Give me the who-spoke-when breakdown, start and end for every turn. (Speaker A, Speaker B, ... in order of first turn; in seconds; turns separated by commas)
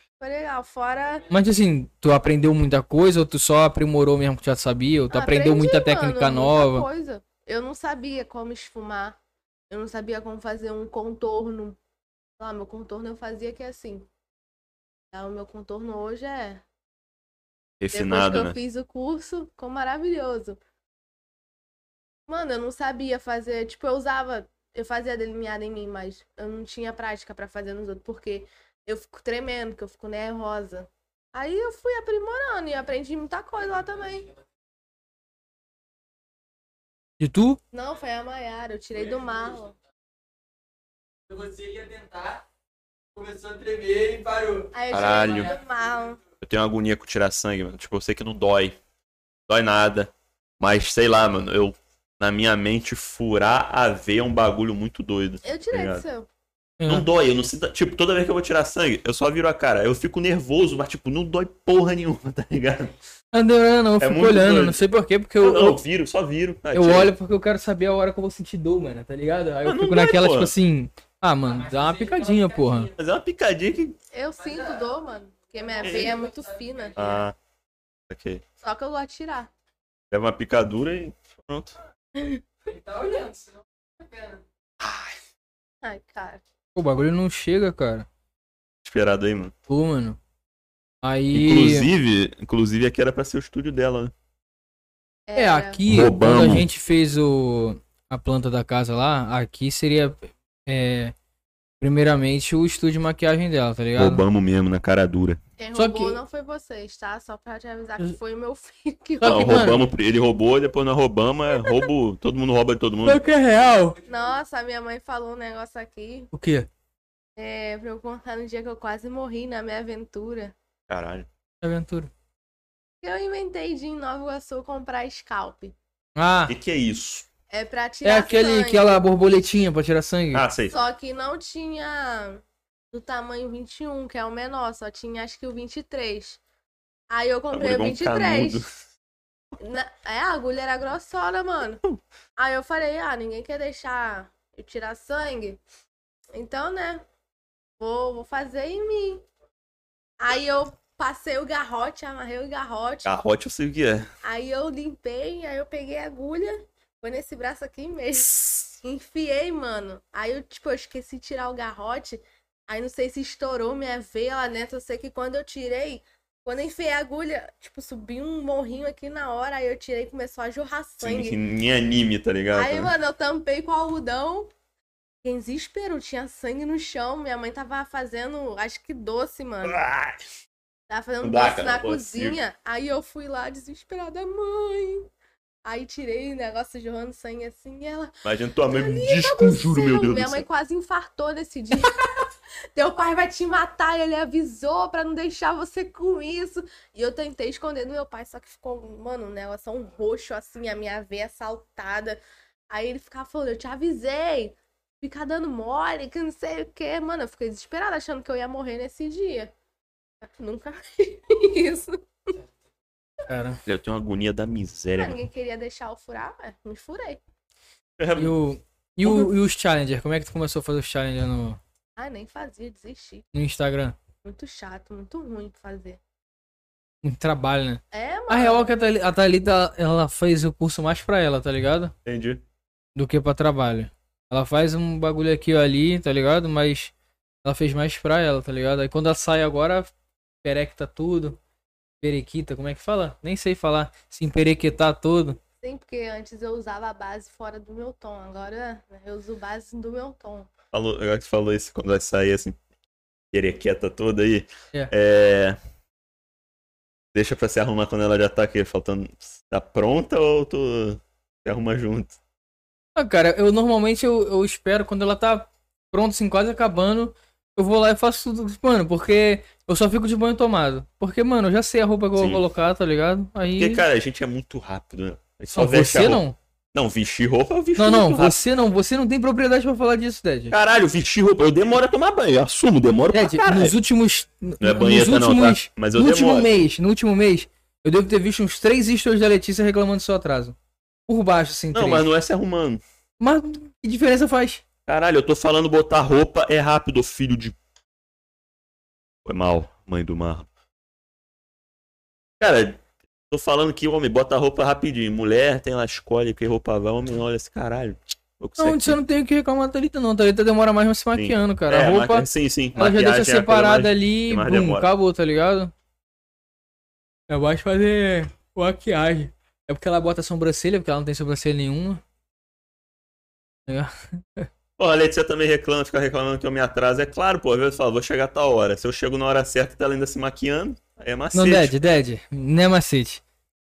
Speaker A: 0.2-1.2, Speaker B: 1.3-6.8, Speaker A: 5.1-9.2, Speaker A: 9.7-11.8, Speaker A: 12.4-14.1, Speaker A: 15.1-16.6, Speaker C: 17.8-18.6, Speaker A: 17.9-20.6, Speaker A: 22.3-34.3, Speaker B: 37.2-37.6, Speaker A: 37.7-39.7, Speaker D: 39.1-39.5, Speaker D: 41.3-42.4, Speaker D: 43.1-45.6, Speaker A: 44.7-46.2, Speaker C: 44.9-45.5, Speaker C: 46.4-48.8, Speaker C: 49.5-56.0, Speaker A: 55.4-56.3, Speaker B: 56.8-57.1, Speaker C: 56.9-62.9, Speaker B: 63.3-65.8, Speaker C: 64.0-64.8, Speaker C: 65.4-67.1, Speaker B: 66.7-72.9, Speaker C: 69.6-70.5, Speaker D: 71.5-72.9, Speaker C: 73.0-74.0, Speaker A: 74.1-77.2, Speaker D: 74.4-74.8, Speaker D: 75.6-76.9, Speaker C: 75.8-76.2, Speaker C: 76.9-77.3, Speaker C: 78.1-78.4, Speaker A: 78.6-79.5, Speaker C: 80.1-81.7, Speaker A: 82.1-82.4, Speaker D: 82.7-84.4, Speaker A: 85.8-86.4, Speaker B: 86.7-88.1, Speaker C: 88.8-89.5, Speaker B: 89.7-90.2, Speaker B: 91.0-91.9, Speaker C: 91.3-94.1, Speaker A: 95.3-95.8, Speaker B: 95.3-101.1, Speaker C: 95.9-96.7, Speaker B: 101.8-104.2, Speaker C: 104.0-105.4, Speaker A: 105.6-109.8, Speaker B: 105.7-106.2, Speaker B: 109.2-109.8, Speaker C: 109.2-113.2, Speaker B: 113.0-114.0, Speaker A: 114.1-116.3, Speaker B: 116.3-116.7, Speaker A: 117.4-120.5, Speaker C: 120.9-121.3, Speaker B: 121.6-122.1, Speaker A: 123.0-125.7, Speaker B: 126.2-126.5, Speaker C: 126.5-127.3, Speaker A: 127.5-129.0, Speaker B: 128.0-130.4, Speaker C: 130.3-130.7, Speaker A: 130.7-136.4, Speaker A: 137.1-138.6, Speaker C: 137.5-138.7, Speaker A: 139.6-141.8, Speaker A: 142.4-145.6, Speaker A: 146.3-147.0, Speaker A: 147.8-149.2, Speaker A: 150.2-153.1, Speaker C: 153.0-154.1, Speaker A: 154.2-171.4, Speaker C: 171.0-172.9, Speaker A: 172.5-174.5, Speaker A: 175.2-179.8, Speaker C: 179.6-180.2, Speaker A: 180.9-185.1, Speaker C: 181.2-182.4, Speaker A: 185.6-188.1, Speaker C: 188.2-190.4, Speaker A: 188.7-209.5, Speaker A: 210.2-212.3, Speaker B: 213.3-213.6, Speaker C: 213.7-215.2, Speaker A: 215.0-217.2, Speaker C: 218.0-218.4, Speaker B: 218.2-221.6, Speaker C: 219.0-219.3, Speaker A: 222.0-223.2, Speaker B: 223.3-224.0, Speaker A: 224.2-226.0, Speaker B: 227.0-231.9, Speaker A: 227.9-228.7, Speaker C: 232.0-232.4, Speaker B: 232.9-236.9, Speaker B: 237.4-239.9, Speaker B: 240.4-241.4, Speaker B: 242.0-245.4, Speaker A: 245.6-250.5, Speaker C: 250.7-252.6, Speaker C: 253.3-255.6, Speaker C: 257.1-262.2, Speaker B: 262.9-273.8, Speaker C: 272.1-272.4, Speaker C: 273.6-276.2, Speaker B: 275.5-276.4, Speaker C: 276.7-278.4, Speaker B: 277.8-280.6, Speaker C: 280.5-283.7, Speaker B: 283.1-290.5, Speaker C: 284.6-286.5, Speaker B: 291.1-292.1, Speaker C: 291.7-292.8, Speaker B: 293.2-294.6, Speaker C: 294.9-297.5, Speaker C: 299.2-300.5, Speaker C: 302.4-309.0, Speaker B: 308.6-315.7, Speaker C: 311.1-314.9, Speaker B: 317.3-322.0, Speaker B: 323.7-324.5, Speaker C: 324.8-331.8, Speaker B: 331.3-333.2